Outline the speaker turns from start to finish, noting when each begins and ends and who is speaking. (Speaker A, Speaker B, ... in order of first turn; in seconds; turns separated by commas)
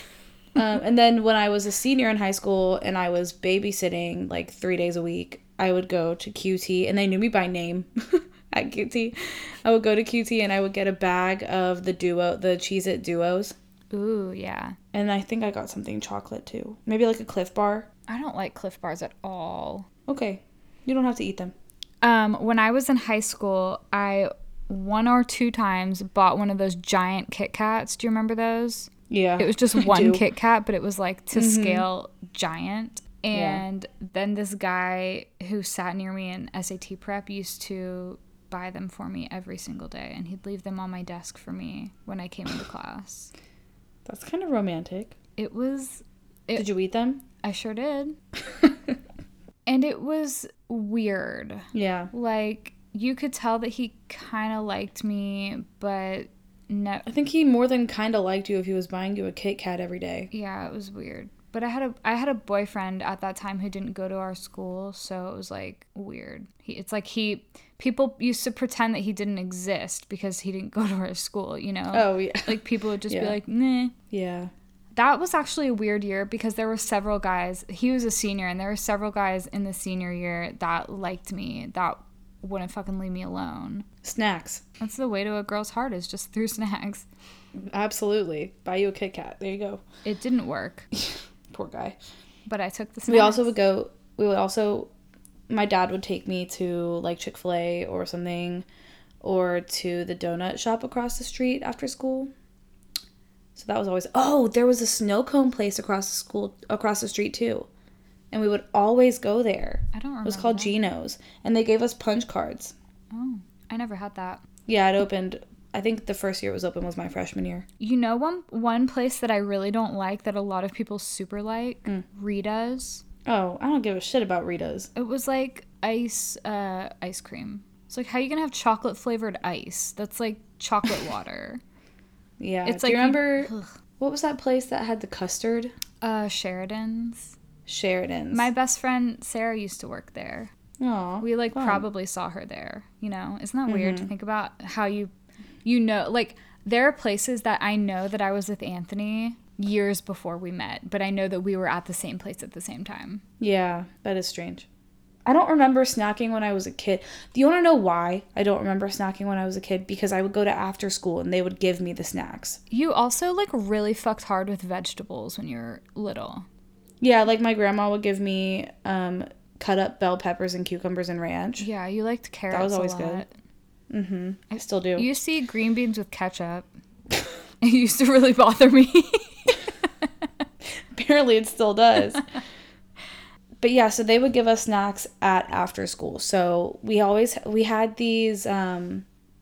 Speaker A: 0.6-13.6, Speaker B: 13.9-14.8, Speaker A: 14.9-17.9, Speaker B: 18.1-19.9, Speaker A: 20.1-21.5, Speaker B: 22.0-43.3, Speaker A: 29.1-30.2, Speaker A: 31.3-31.9, Speaker A: 33.3-33.6, Speaker A: 44.0-45.1, Speaker B: 45.4-46.7, Speaker A: 46.6-47.2, Speaker B: 47.4-48.2, Speaker B: 49.7-57.1, Speaker A: 51.7-52.1, Speaker A: 57.1-60.3, Speaker B: 60.3-74.0, Speaker A: 71.9-73.4, Speaker A: 74.1-74.5, Speaker B: 75.0-83.9, Speaker A: 84.0-84.6, Speaker B: 84.8-87.1, Speaker A: 87.6-89.8, Speaker B: 90.0-90.9, Speaker A: 90.9-92.0, Speaker B: 92.5-93.5, Speaker A: 93.1-94.9, Speaker A: 95.5-98.7, Speaker A: 99.2-102.3, Speaker A: 103.6-107.7, Speaker A: 108.3-112.8, Speaker B: 109.9-110.8, Speaker B: 113.1-114.4, Speaker A: 114.7-117.7, Speaker B: 117.8-123.0, Speaker A: 123.2-124.9, Speaker B: 125.0-131.6, Speaker A: 132.4-135.7, Speaker B: 132.7-133.7, Speaker B: 136.0-137.4, Speaker A: 137.7-138.5, Speaker B: 138.3-140.5, Speaker A: 140.8-141.8, Speaker B: 141.2-145.1, Speaker A: 143.7-144.1, Speaker B: 145.7-153.2, Speaker A: 153.4-154.7, Speaker A: 155.2-162.6, Speaker B: 162.7-166.5, Speaker A: 167.0-171.7, Speaker B: 171.6-173.3, Speaker A: 172.5-173.2, Speaker A: 173.9-175.1, Speaker B: 174.5-176.7, Speaker B: 177.6-179.7, Speaker A: 180.9-182.2, Speaker A: 183.6-189.1